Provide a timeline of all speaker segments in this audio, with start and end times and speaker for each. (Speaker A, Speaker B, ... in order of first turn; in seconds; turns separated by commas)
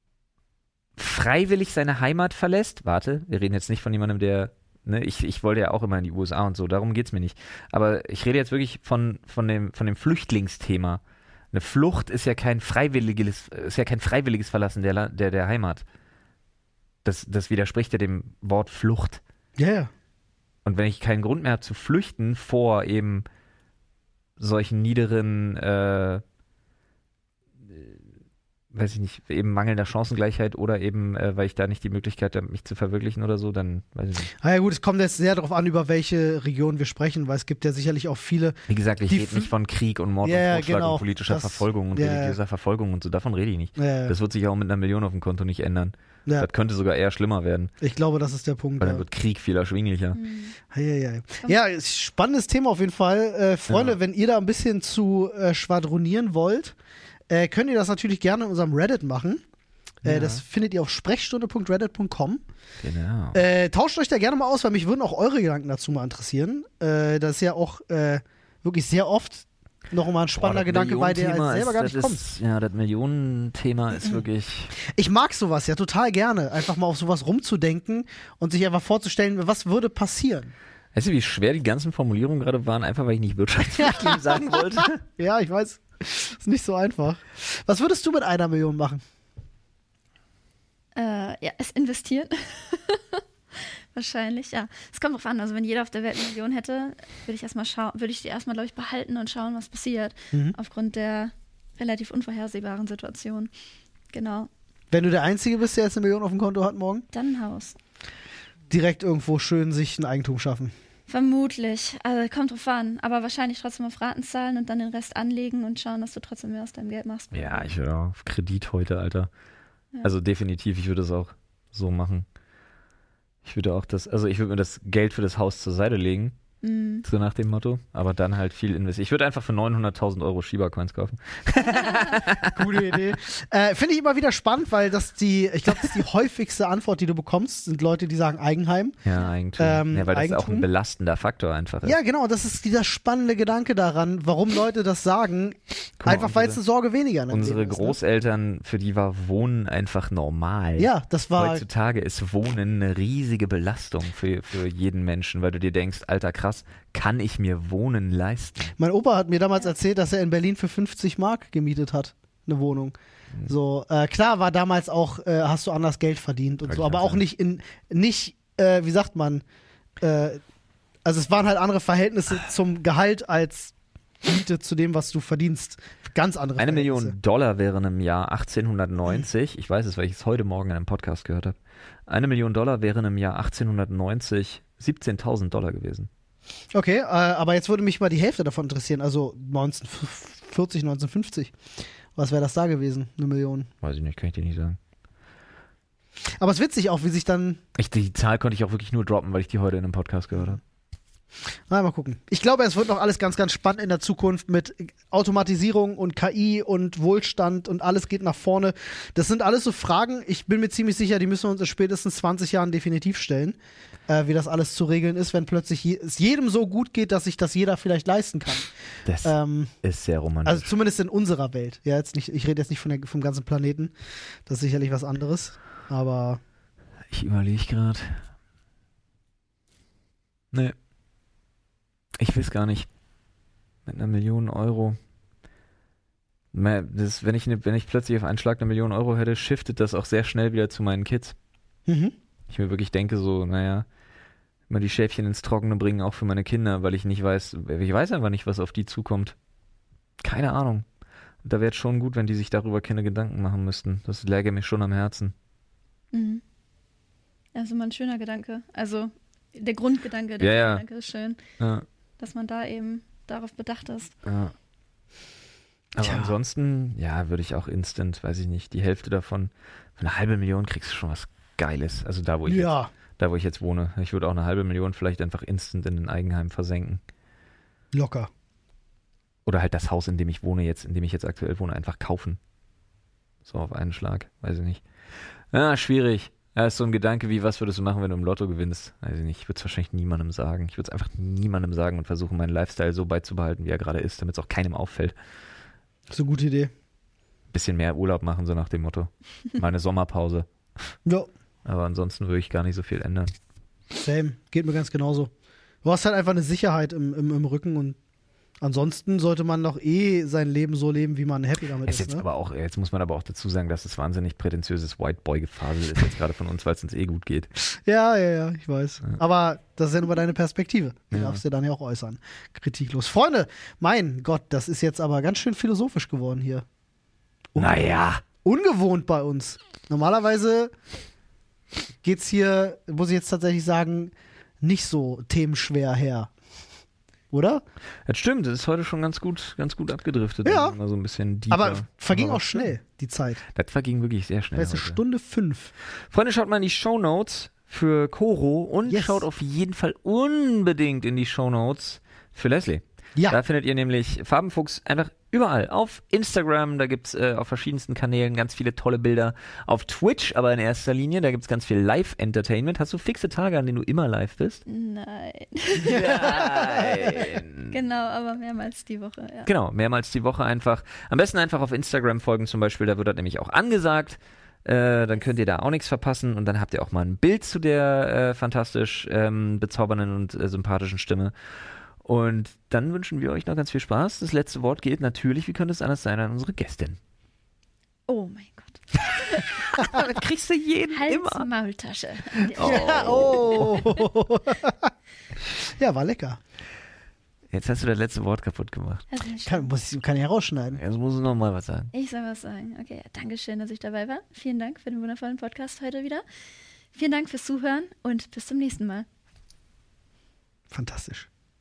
Speaker A: 1.0-11.0, Speaker A: 11.5-15.8, Speaker A: 17.0-19.2, Speaker B: 19.6-19.9, Speaker A: 20.6-23.2, Speaker A: 24.4-26.2, Speaker A: 27.7-28.0, Speaker A: 28.7-34.3, Speaker B: 34.3-39.5, Speaker A: 38.7-47.7, Speaker B: 40.2-42.4, Speaker B: 43.8-44.1, Speaker B: 47.8-49.0, Speaker A: 48.8-50.2, Speaker C: 50.1-50.5, Speaker B: 50.7-56.7, Speaker A: 53.7-54.0, Speaker B: 57.3-59.4, Speaker B: 60.0-62.4, Speaker A: 60.0-60.4, Speaker A: 62.8-63.4, Speaker B: 63.3-72.2, Speaker A: 70.3-74.7, Speaker B: 74.8-80.5, Speaker A: 80.9-85.0, Speaker B: 83.8-89.0, Speaker C: 90.9-103.5, Speaker C: 104.1-104.5, Speaker B: 104.9-107.0, Speaker C: 107.1-107.8, Speaker B: 108.7-110.7, Speaker C: 111.1-117.7, Speaker A: 117.3-119.3, Speaker A: 120.0-122.2, Speaker A: 123.4-126.3, Speaker C: 126.6-127.0, Speaker A: 127.0-133.0, Speaker C: 131.7-132.1, Speaker B: 132.4-139.0, Speaker A: 139.0-141.9, Speaker B: 139.6-140.7, Speaker B: 141.8-148.0, Speaker A: 146.0-146.6, Speaker A: 147.3-158.8, Speaker B: 150.8-151.6, Speaker B: 158.8-162.9, Speaker B: 163.4-169.4, Speaker A: 166.7-167.2, Speaker B: 170.0-170.4, Speaker B: 171.0-177.1, Speaker A: 176.6-181.6, Speaker A: 182.1-186.1, Speaker B: 186.7-191.5, Speaker B: 192.1-193.7, Speaker A: 193.8-194.8, Speaker B: 196.4-197.6, Speaker A: 197.8-200.6, Speaker B: 200.3-200.6, Speaker B: 201.7-213.6, Speaker B: 214.1-218.7, Speaker A: 219.1-220.7, Speaker B: 219.2-219.7, Speaker B: 220.4-223.9, Speaker B: 224.4-226.4, Speaker A: 227.1-228.2, Speaker A: 232.2-232.9, Speaker A: 233.8-235.0, Speaker A: 236.5-241.3, Speaker B: 241.9-242.1, Speaker A: 242.5-243.8, Speaker A: 244.7-249.3, Speaker A: 250.2-250.8, Speaker A: 251.4-255.3, Speaker C: 256.1-256.4, Speaker C: 257.5-261.4, Speaker A: 260.4-260.8, Speaker A: 261.6-261.8, Speaker C: 262.2-264.1, Speaker A: 264.2-264.5, Speaker A: 265.9-277.0, Speaker B: 266.0-266.4, Speaker B: 272.5-272.9, Speaker B: 277.9-278.3, Speaker A: 279.4-282.4, Speaker A: 283.4-284.8, Speaker A: 285.5-295.1, Speaker B: 296.1-296.7, Speaker A: 297.5-300.5, Speaker A: 301.6-303.3, Speaker B: 303.9-305.3, Speaker B: 305.8-308.0, Speaker B: 308.6-312.2, Speaker A: 311.9-317.5, Speaker B: 317.7-326.6, Speaker A: 321.1-321.4, Speaker B: 327.5-330.7, Speaker A: 327.6-328.2, Speaker B: 332.0-336.3, Speaker B: 337.3-337.6, Speaker A: 338.1-342.7, Speaker B: 340.4-340.8, Speaker B: 341.5-343.4, Speaker A: 343.5-345.0, Speaker B: 344.6-345.7, Speaker A: 346.1-364.6, Speaker B: 348.9-349.2, Speaker C: 364.6-369.5, Speaker A: 365.8-367.8, Speaker A: 369.4-381.3, Speaker A: 382.0-387.0, Speaker C: 388.1-390.0, Speaker A: 389.3-391.5, Speaker C: 390.9-393.8, Speaker B: 392.5-394.9, Speaker A: 392.6-393.8, Speaker B: 395.5-396.4, Speaker A: 397.5-399.0, Speaker C: 399.1-399.7, Speaker B: 399.4-400.8, Speaker A: 400.7-401.9, Speaker C: 401.9-406.2, Speaker C: 406.9-409.1, Speaker B: 410.7-411.3